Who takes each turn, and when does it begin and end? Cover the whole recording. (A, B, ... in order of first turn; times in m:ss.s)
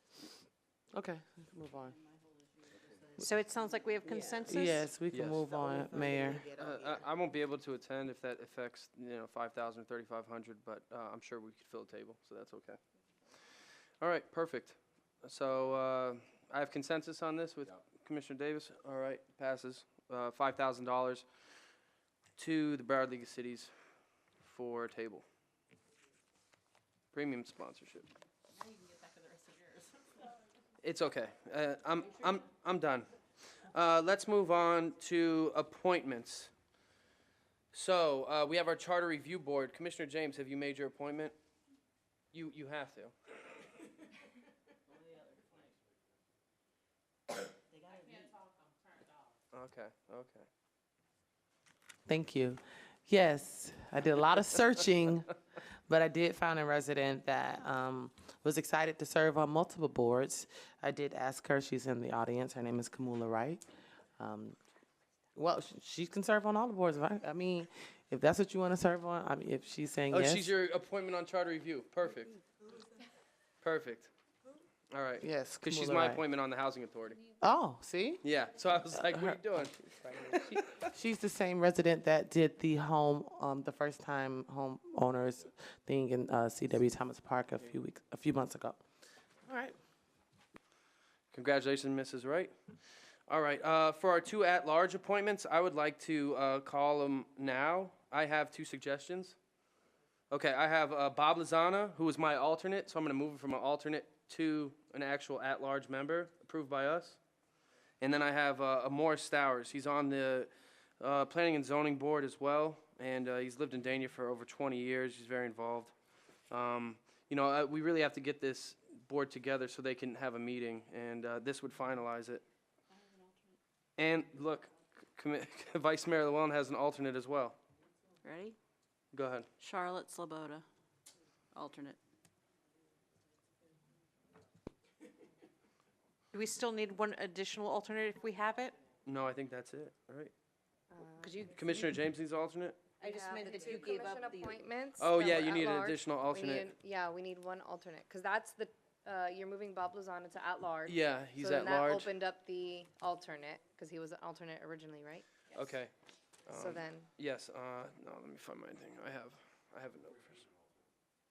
0:00.9-0:02.0 A
0:03.2-0:04.9 B
0:04.1-0:06.8 A
0:05.1-0:05.5 C
0:06.5-0:12.8 C
0:14.0-0:21.3 C
0:22.4-0:23.7 C
0:24.4-0:25.2 C
0:27.1-0:28.1 C
0:30.8-0:33.1 C
0:33.7-0:36.5 C
0:37.7-0:41.4 C
0:42.3-0:43.3 C
0:49.5-0:50.5 C
0:52.1-0:55.3 A
0:55.9-1:03.6 A
1:04.2-1:04.6 A
1:05.4-1:10.5 A
1:10.1-1:12.4 C
1:13.6-1:14.1 C
1:14.9-1:17.2 C
1:15.2-1:16.2 A
1:17.4-1:18.2 A
1:18.2-1:20.6 C
1:18.9-1:28.8 A
1:29.5-1:29.8 A
1:31.3-1:32.5 C
1:33.3-1:39.4 C
1:40.3-1:47.2 C
1:48.0-1:55.9 C
1:56.5-2:02.4 C
2:04.0-2:07.6 C
2:08.2-2:08.6 B
2:09.1-2:09.5 C
2:09.6-2:10.7 B
2:11.6-2:12.0 B
2:16.3-2:18.8 B
2:19.1-2:20.3 C
2:20.9-2:21.4 D
2:21.2-2:21.9 B
2:21.5-2:22.8 C
2:23.0-2:24.6 B
2:23.0-2:35.2 D
2:25.0-2:26.8 C
2:30.9-2:32.1 C
2:35.5-2:35.9 C
2:36.5-2:40.5 C
2:36.5-2:37.1 D